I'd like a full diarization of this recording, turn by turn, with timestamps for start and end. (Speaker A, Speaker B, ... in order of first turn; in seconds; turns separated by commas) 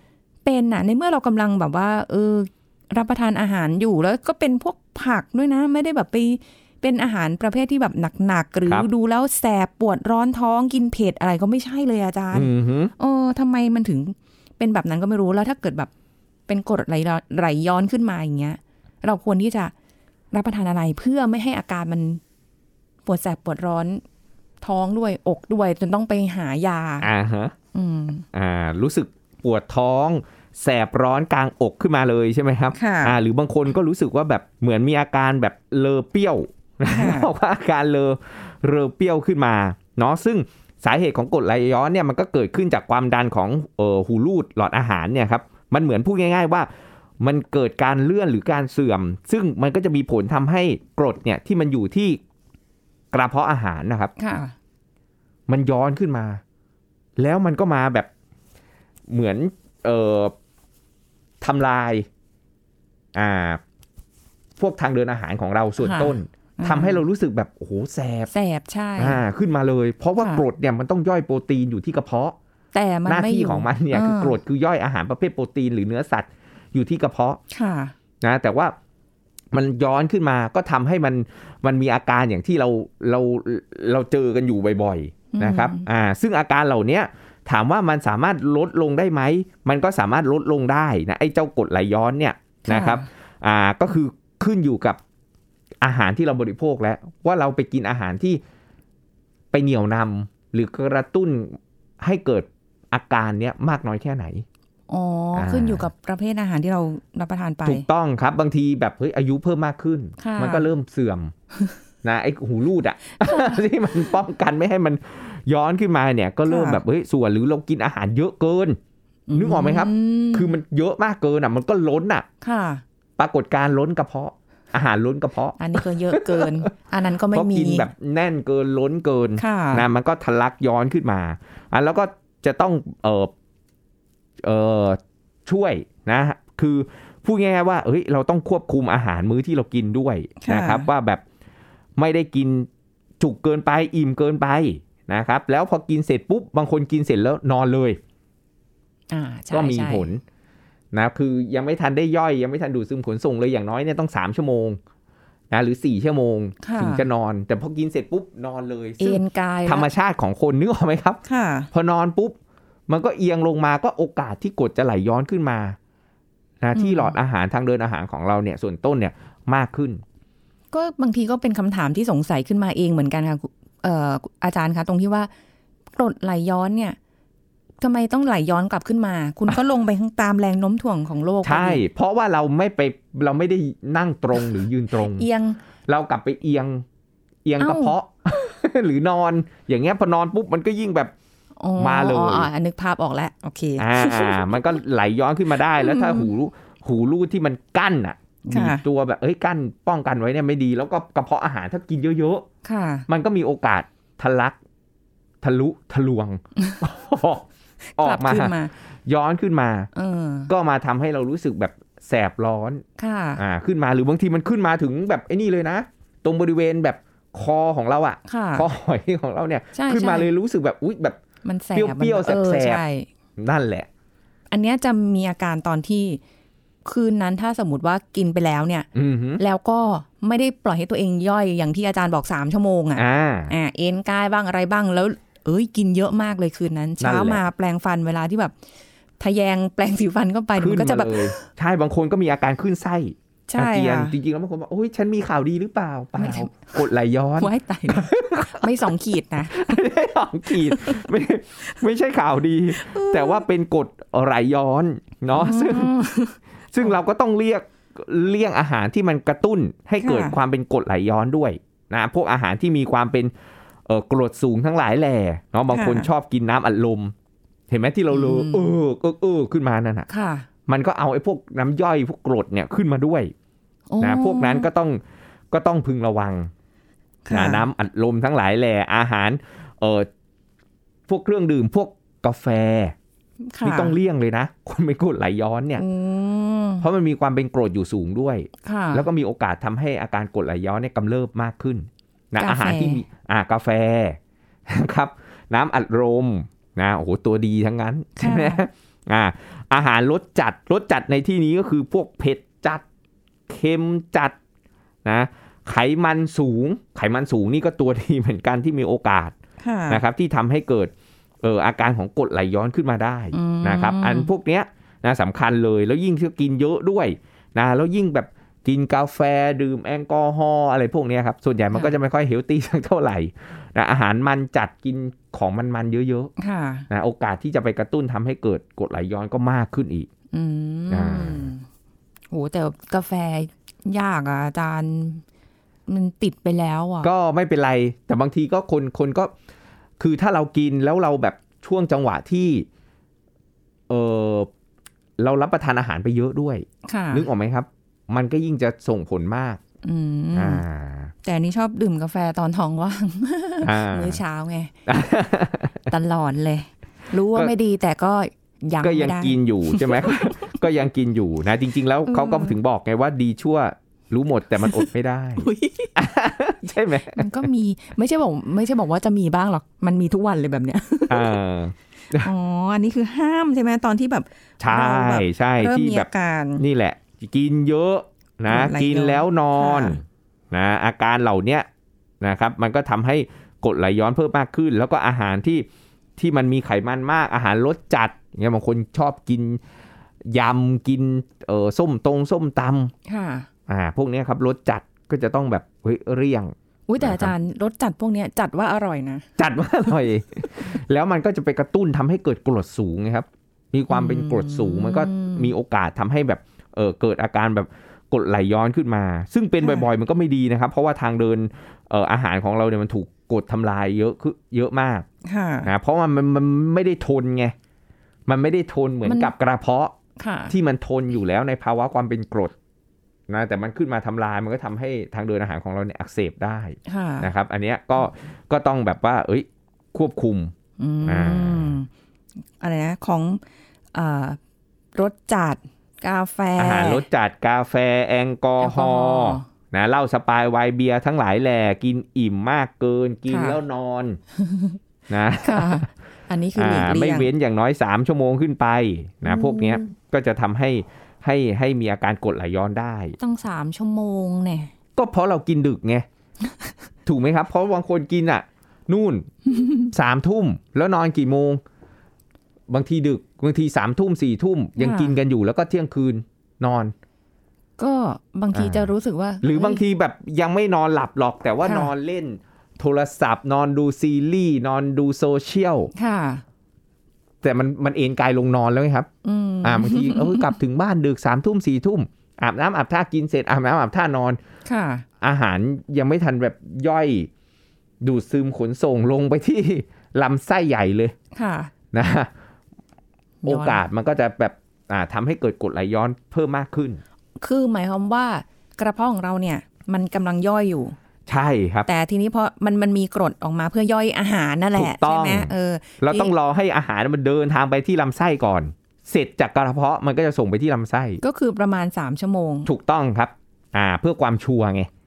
Speaker A: 0.4-15.9, Speaker B: 12.3-12.9, Speaker A: 16.5-19.7, Speaker A: 20.3-22.2, Speaker A: 23.1-24.0, Speaker A: 24.6-27.1, Speaker B: 27.0-27.5, Speaker A: 27.7-28.2, Speaker B: 28.3-46.7, Speaker A: 32.7-33.2, Speaker A: 36.8-37.3, Speaker B: 47.2-52.2, Speaker B: 53.1-54.1, Speaker A: 54.2-54.5, Speaker B: 55.5-56.4, Speaker B: 57.2-58.1, Speaker B: 59.1-60.3, Speaker B: 61.4-62.1, Speaker B: 63.1-63.6, Speaker B: 64.6-68.3, Speaker A: 65.8-67.0, Speaker A: 68.3-69.2, Speaker B: 69.0-72.4, Speaker A: 70.2-70.4, Speaker A: 72.7-74.4, Speaker B: 73.1-77.4, Speaker A: 77.5-77.9, Speaker B: 78.2-78.7, Speaker B: 79.5-95.0, Speaker A: 85.3-85.8, Speaker A: 92.7-93.1, Speaker B: 95.8-98.4, Speaker B: 99.5-104.5, Speaker A: 104.9-107.8, Speaker B: 105.3-105.8, Speaker B: 107.6-111.3, Speaker A: 110.2-110.7, Speaker B: 112.0-118.8, Speaker A: 113.2-113.6, Speaker A: 116.5-116.8, Speaker A: 119.3-120.5, Speaker B: 119.3-122.2, Speaker A: 122.4-122.8, Speaker B: 123.2-126.7, Speaker A: 125.6-127.9, Speaker B: 127.3-133.3, Speaker A: 129.4-129.8, Speaker B: 134.4-141.2, Speaker A: 140.4-140.9, Speaker B: 142.0-142.7, Speaker B: 143.2-148.0, Speaker A: 149.1-150.1, Speaker B: 149.5-150.2, Speaker B: 150.9-154.8, Speaker B: 155.5-161.2, Speaker A: 156.6-157.1, Speaker A: 159.0-159.9, Speaker A: 161.2-161.7, Speaker B: 161.7-162.3, Speaker B: 162.9-165.8, Speaker B: 166.6-170.0, Speaker A: 166.7-167.1, Speaker A: 170.7-175.3, Speaker A: 175.9-177.0, Speaker A: 177.8-181.8, Speaker B: 181.4-185.2, Speaker A: 185.1-185.6, Speaker B: 185.9-186.8, Speaker B: 187.4-191.1, Speaker A: 187.6-187.9, Speaker A: 191.6-194.8, Speaker B: 191.8-192.5, Speaker B: 193.8-202.4, Speaker A: 195.7-196.3, Speaker A: 198.4-198.8, Speaker A: 202.6-203.1, Speaker B: 203.1-204.6, Speaker B: 205.4-207.4, Speaker A: 208.0-208.7, Speaker B: 208.0-208.5, Speaker B: 209.1-209.9, Speaker A: 209.9-210.5, Speaker B: 210.5-212.8, Speaker A: 213.0-213.4, Speaker B: 213.4-221.2, Speaker A: 218.3-218.7, Speaker A: 219.7-220.3, Speaker A: 221.4-223.1, Speaker B: 221.7-222.8, Speaker B: 223.4-223.9, Speaker A: 224.5-226.2, Speaker A: 226.8-228.9, Speaker B: 228.9-229.4, Speaker A: 229.4-238.5, Speaker B: 232.9-233.5, Speaker B: 237.0-237.4, Speaker A: 239.2-241.4, Speaker B: 240.6-248.9, Speaker A: 243.5-244.1, Speaker A: 246.2-246.8, Speaker A: 247.4-249.8, Speaker B: 249.5-255.9, Speaker A: 250.5-251.1, Speaker A: 252.7-253.4, Speaker A: 255.3-256.9, Speaker B: 256.7-263.3, Speaker A: 260.0-260.4, Speaker B: 263.9-267.1, Speaker A: 265.7-266.1, Speaker B: 267.7-270.1, Speaker A: 268.1-268.7, Speaker A: 270.1-270.5, Speaker B: 270.7-273.3, Speaker A: 273.9-274.7, Speaker B: 274.0-276.5, Speaker A: 277.2-277.6, Speaker B: 277.3-280.1, Speaker B: 281.1-282.9, Speaker A: 283.5-284.0, Speaker B: 283.6-285.8, Speaker A: 285.8-286.9, Speaker B: 286.8-302.8, Speaker A: 288.6-289.1, Speaker A: 292.4-293.0, Speaker A: 298.2-298.6, Speaker B: 303.5-304.4, Speaker B: 305.0-309.4, Speaker A: 309.6-310.0, Speaker B: 309.9-326.3, Speaker A: 313.3-314.3, Speaker A: 326.4-326.9, Speaker B: 326.9-330.1, Speaker A: 330.3-331.6, Speaker B: 330.9-331.5, Speaker A: 332.3-335.2, Speaker A: 335.9-337.1, Speaker B: 337.0-339.3, Speaker B: 340.0-342.6, Speaker B: 343.9-344.5, Speaker B: 345.2-349.6, Speaker A: 346.8-347.3, Speaker A: 349.8-350.6, Speaker B: 350.3-351.1, Speaker A: 351.2-354.7, Speaker B: 353.6-354.2, Speaker B: 354.9-355.9, Speaker A: 355.9-360.6, Speaker B: 358.8-367.3, Speaker A: 362.1-362.6, Speaker A: 364.6-365.9, Speaker A: 367.0-371.4, Speaker B: 371.1-372.3, Speaker A: 372.1-376.6, Speaker B: 374.6-381.7, Speaker A: 378.5-380.0, Speaker B: 382.2-389.6, Speaker B: 390.3-392.9, Speaker A: 393.1-393.5, Speaker B: 393.7-397.3, Speaker A: 396.9-399.2, Speaker B: 399.4-415.1, Speaker A: 403.9-405.5, Speaker A: 409.6-409.9, Speaker A: 415.2-415.7, Speaker B: 415.6-417.5, Speaker B: 418.2-419.9, Speaker A: 419.0-419.3, Speaker A: 420.2-420.5, Speaker B: 420.5-422.5, Speaker B: 423.3-430.5, Speaker A: 426.9-427.3, Speaker A: 430.8-431.9, Speaker B: 431.0-431.8, Speaker A: 432.6-433.4, Speaker A: 433.9-434.4, Speaker A: 434.9-437.0, Speaker B: 436.6-444.2, Speaker A: 438.6-439.4, Speaker A: 443.3-443.6, Speaker A: 444.4-444.8, Speaker B: 445.1-445.8, Speaker A: 445.4-447.3, Speaker B: 446.5-453.2, Speaker A: 449.2-449.9, Speaker A: 453.2-454.7, Speaker B: 454.9-456.1, Speaker B: 457.1-459.3, Speaker A: 459.5-459.9, Speaker B: 459.9-461.6, Speaker B: 462.7-466.9, Speaker A: 464.8-465.1, Speaker A: 467.8-469.8, Speaker B: 468.5-468.9, Speaker B: 469.4-475.9, Speaker A: 471.6-471.9, Speaker A: 475.9-476.4, Speaker B: 477.4-479.1, Speaker A: 479.2-480.5, Speaker B: 479.6-484.4, Speaker A: 484.6-485.0, Speaker B: 485.2-487.3, Speaker B: 488.0-491.1, Speaker A: 491.3-491.7, Speaker B: 491.9-492.3, Speaker A: 493.4-493.8, Speaker B: 493.4-497.0, Speaker A: 497.4-501.0, Speaker B: 501.3-501.9, Speaker A: 501.9-506.3, Speaker B: 504.7-511.2, Speaker A: 511.2-512.7, Speaker B: 512.6-514.9